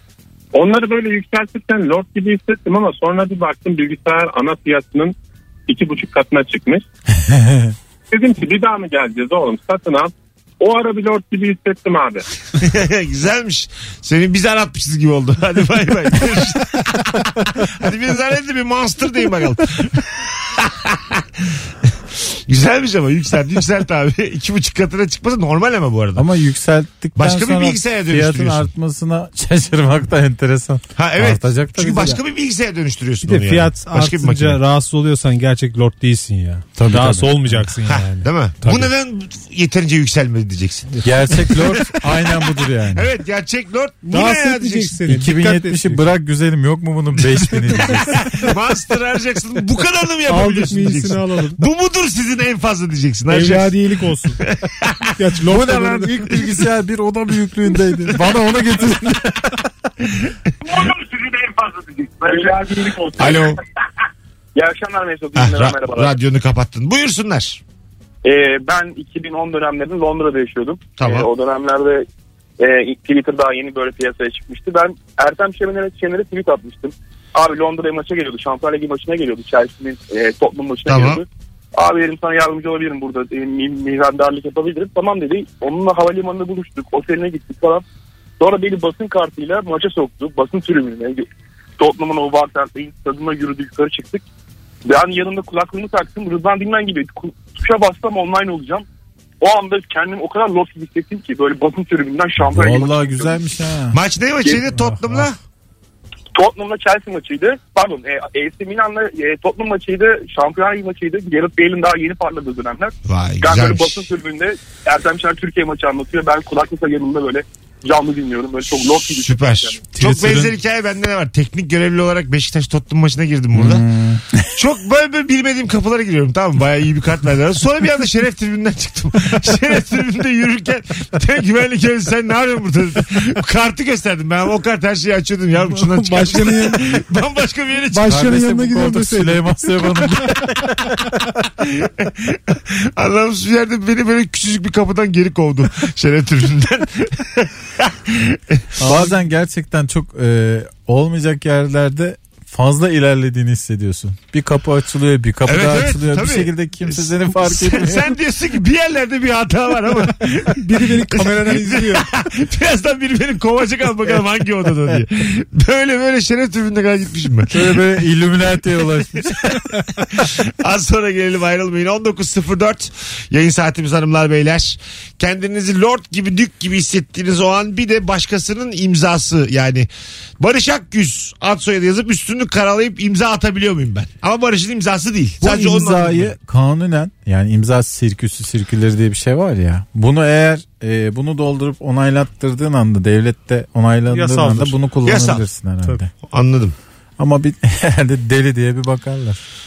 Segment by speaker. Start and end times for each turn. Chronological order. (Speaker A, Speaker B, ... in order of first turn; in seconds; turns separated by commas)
Speaker A: 0.5-5.1, Speaker A: 5.7-6.8, Speaker B: 7.2-7.7, Speaker A: 8.1-12.2, Speaker C: 12.6-21.6, Speaker C: 22.5-26.3, Speaker B: 26.2-32.2, Speaker C: 27.2-28.7, Speaker C: 31.0-34.6, Speaker D: 33.2-38.9, Speaker B: 36.8-37.7, Speaker C: 37.9-40.9, Speaker B: 41.0-43.1, Speaker C: 43.0-45.0, Speaker D: 44.1-46.1, Speaker B: 45.1-48.2, Speaker D: 47.6-47.9, Speaker C: 48.3-53.7, Speaker D: 50.3-51.6, Speaker D: 53.3-54.4, Speaker C: 54.5-55.1, Speaker D: 55.2-56.3, Speaker B: 55.5-59.6, Speaker E: 62.2-63.4, Speaker C: 63.2-63.6, Speaker E: 64.5-66.2, Speaker C: 65.4-67.6, Speaker E: 68.2-72.1, Speaker C: 71.0-71.3, Speaker E: 72.6-87.8, Speaker C: 80.9-81.2, Speaker E: 88.4-91.3, Speaker E: 91.8-94.2, Speaker E: 94.8-98.8, Speaker E: 99.4-103.4, Speaker B: 102.4-104.0, Speaker C: 103.9-105.4, Speaker B: 104.8-105.2, Speaker E: 106.3-119.9, Speaker C: 113.1-114.0, Speaker C: 119.2-123.9, Speaker D: 120.0-120.5, Speaker B: 123.5-124.5, Speaker C: 124.5-138.2, Speaker D: 135.7-136.8, Speaker D: 137.9-140.2, Speaker B: 138.0-141.2, Speaker C: 141.6-148.7, Speaker B: 148.8-158.2, Speaker C: 155.5-167.6, Speaker D: 160.6-162.1, Speaker B: 167.5-169.7, Speaker C: 170.1-179.9, Speaker C: 180.4-186.3, Speaker B: 185.4-196.1, Speaker D: 194.1-194.8, Speaker C: 195.1-195.4, Speaker C: 196.3-196.8, Speaker B: 197.2-199.4